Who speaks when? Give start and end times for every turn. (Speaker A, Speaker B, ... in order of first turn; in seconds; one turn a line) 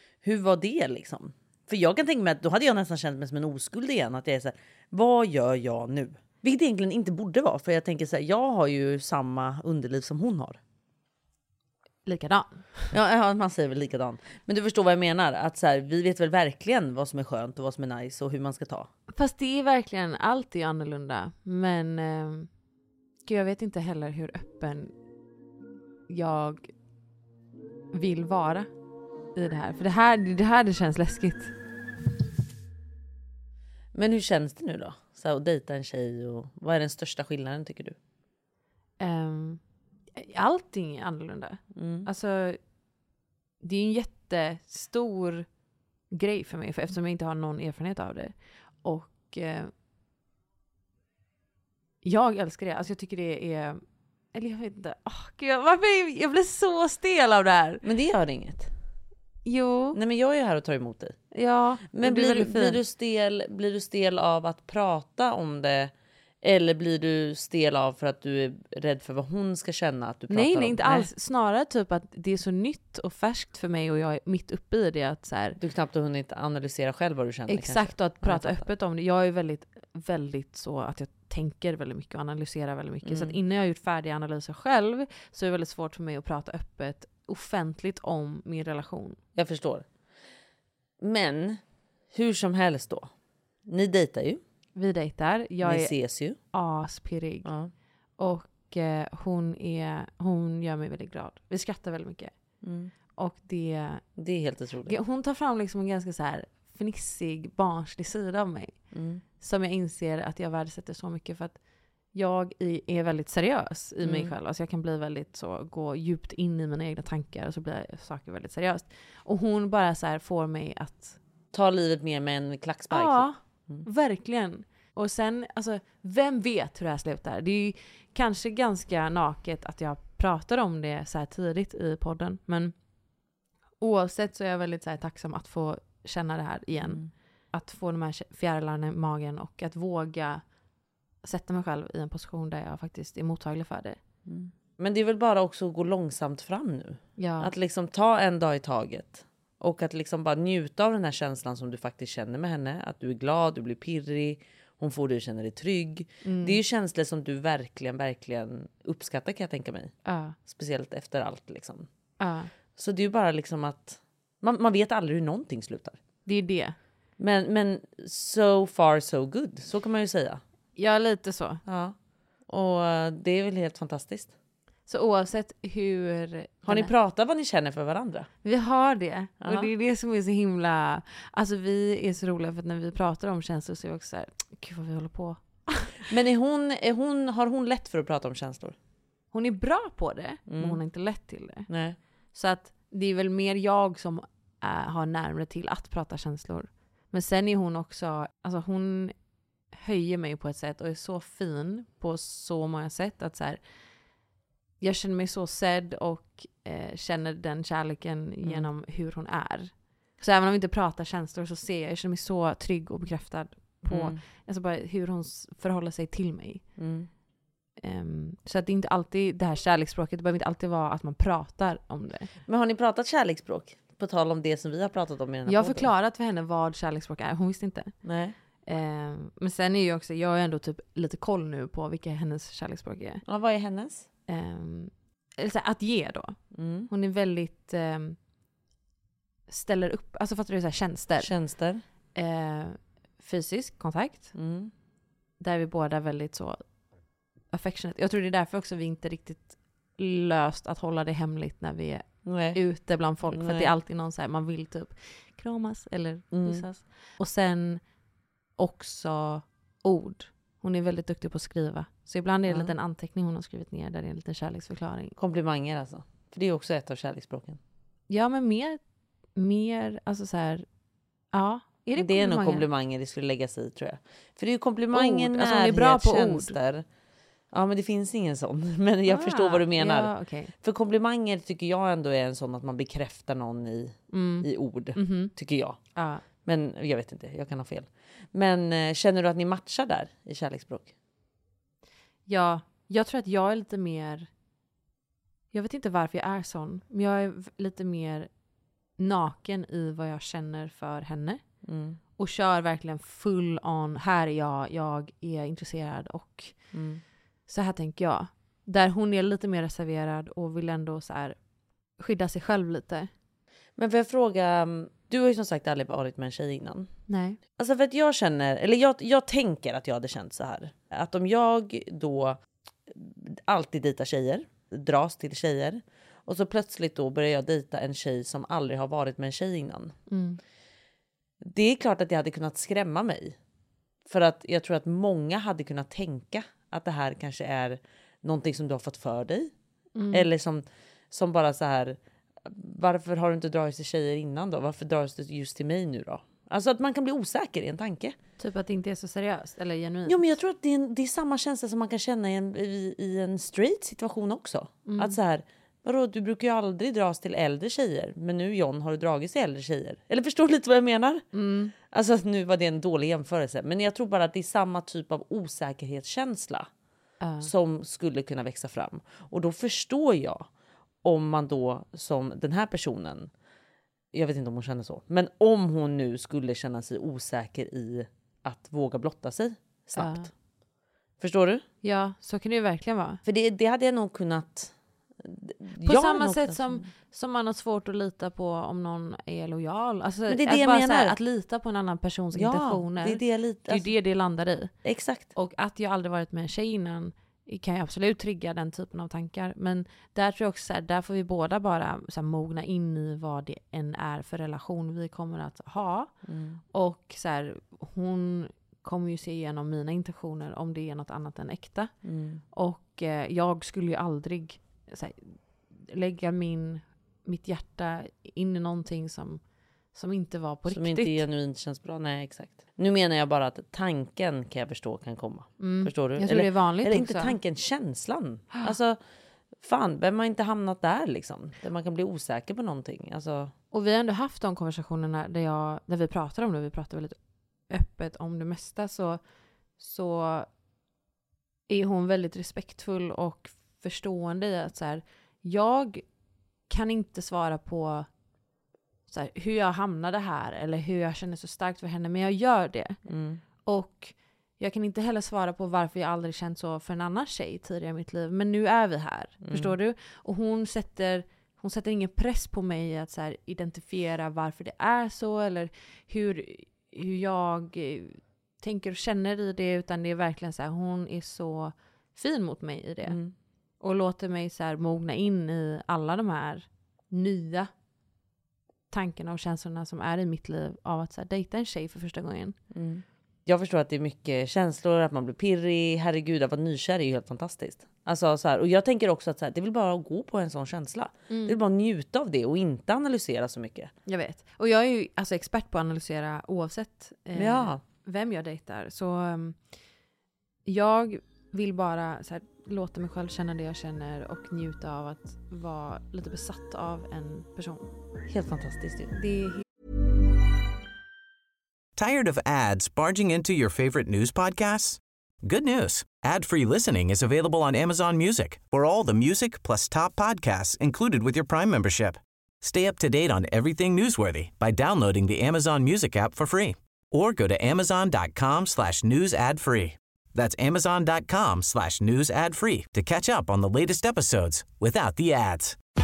Speaker A: 0.2-10.6
Speaker B: 12.1-12.9
Speaker A: 12.9-18.9
Speaker B: 19.1-22.5
Speaker B: 23.2-24.9
Speaker B: 26.1-26.7
Speaker B: 27.9-28.7
Speaker B: 29.4-31.5
Speaker A: 33.9-38.0
Speaker B: 39.0-39.6
Speaker B: 40.1-42.6
Speaker A: 41.7-42.1
Speaker B: 43.6-45.5
Speaker B: 46.1-49.7
Speaker B: 52.0-53.8
Speaker B: 54.3-57.8
Speaker A: 57.8-58.7
Speaker B: 59.5-60.0
Speaker A: 59.9-61.2
Speaker B: 61.3-62.8
Speaker A: 61.9-71.1
Speaker B: 70.3-75.6
Speaker A: 75.6-78.7
Speaker B: 77.5-89.2
Speaker A: 83.0-83.4
Speaker A: 89.3-89.9
Speaker A: 91.0-91.6
Speaker A: 92.1-93.1
Speaker A: 93.7-94.4
Speaker B: 94.8-97.5
Speaker A: 95.6-96.4
Speaker A: 97.5-97.7
Speaker B: 98.2-102.3
Speaker A: 102.6-102.9
Speaker B: 103.2-104.0
Speaker A: 104.2-105.0
Speaker B: 104.9-108.8
Speaker A: 108.9-109.2
Speaker B: 109.4-111.6
Speaker B: 112.1-121.2
Speaker A: 114.0-114.3
Speaker A: 121.5-123.8
Speaker B: 122.9-132.7
Speaker B: 133.8-137.0
Speaker A: 136.8-137.1
Speaker B: 137.5-140.4
Speaker B: 141.2-144.0
Speaker A: 144.3-159.9
Speaker B: 147.2-147.5
Speaker B: 156.2-156.6
Speaker B: 160.1-160.4
Speaker A: 160.5-161.9
Speaker B: 162.2-162.5
Speaker A: 162.8-166.0
Speaker B: 166.3-166.8
Speaker A: 167.2-170.4
Speaker B: 170.8-171.6
Speaker A: 171.7-172.0
Speaker A: 172.5-174.3
Speaker B: 174.9-176.9
Speaker A: 176.7-178.3
Speaker B: 178.4-186.0
Speaker A: 179.4-179.7
Speaker A: 186.1-188.8
Speaker B: 189.3-191.7
Speaker A: 190.5-190.8
Speaker A: 191.7-192.0
Speaker B: 192.3-199.1
Speaker B: 199.7-203.6
Speaker B: 204.8-216.6
Speaker A: 213.9-214.2
Speaker A: 216.8-217.1
Speaker B: 217.8-222.3
Speaker A: 222.5-225.9
Speaker B: 225.5-227.9
Speaker A: 228.0-228.3
Speaker B: 228.7-233.2
Speaker A: 233.3-234.1
Speaker B: 234.3-236.4
Speaker A: 236.5-236.9
Speaker B: 236.9-238.2
Speaker B: 239.5-241.3
Speaker A: 241.2-241.8
Speaker B: 242.2-244.3
Speaker A: 244.3-244.7
Speaker B: 245.4-246.6
Speaker B: 247.5-257.8
Speaker A: 252.2-252.6
Speaker A: 253.3-253.7
Speaker A: 256.3-256.6
Speaker B: 258.6-265.1
Speaker A: 262.5-262.7
Speaker A: 265.2-267.6
Speaker B: 268.1-268.8
Speaker B: 269.4-270.7
Speaker B: 271.3-272.7
Speaker A: 272.0-276.9
Speaker B: 274.9-276.6
Speaker A: 277.5-285.8
Speaker B: 279.1-280.5
Speaker B: 284.1-285.3
Speaker B: 285.9-286.2
Speaker A: 286.4-290.9
Speaker B: 292.3-294.3
Speaker B: 295.5-298.3
Speaker B: 299.0-301.4
Speaker A: 301.6-302.0
Speaker B: 302.2-306.6
Speaker A: 306.7-307.0
Speaker B: 307.5-311.4
Speaker B: 312.0-313.1
Speaker A: 313.8-316.9
Speaker B: 317.1-317.4
Speaker A: 317.6-329.9
Speaker B: 330.1-330.4
Speaker A: 331.4-333.4
Speaker A: 334.1-339.5
Speaker B: 339.9-340.3
Speaker A: 340.1-348.2
Speaker B: 348.4-350.4
Speaker A: 350.1-361.2
Speaker B: 354.9-355.2
Speaker B: 361.3-361.7
Speaker A: 361.8-366.7
Speaker B: 367.2-367.5
Speaker A: 367.4-370.5
Speaker A: 371.0-373.3
Speaker A: 374.1-380.3
Speaker B: 380.0-380.3
Speaker A: 381.2-381.6
Speaker B: 381.8-383.2
Speaker A: 383.2-386.9
Speaker B: 385.8-394.7
Speaker A: 390.3-391.2
Speaker A: 392.3-393.9
Speaker A: 394.8-395.3
Speaker B: 395.4-406.1
Speaker A: 406.3-406.6
Speaker B: 406.7-411.9
Speaker A: 412.0-412.4
Speaker B: 412.5-419.4
Speaker B: 419.9-421.2
Speaker A: 420.7-429.0
Speaker B: 425.6-427.4
Speaker A: 429.6-433.5
Speaker B: 433.7-437.2
Speaker B: 437.7-439.2
Speaker B: 439.8-440.5
Speaker B: 441.7-446.1
Speaker B: 446.7-448.1
Speaker B: 449.1-453.0
Speaker A: 453.1-453.4
Speaker B: 453.6-473.2
Speaker A: 459.4-459.8
Speaker A: 473.1-473.3
Speaker B: 473.8-477.7
Speaker B: 478.9-482.6
Speaker A: 482.7-493.9
Speaker B: 491.3-491.6
Speaker B: 494.1-499.6
Speaker A: 497.3-497.8
Speaker B: 500.7-507.9
Speaker A: 508.3-509.2
Speaker B: 509.2-509.6
Speaker C: 512.0-535.8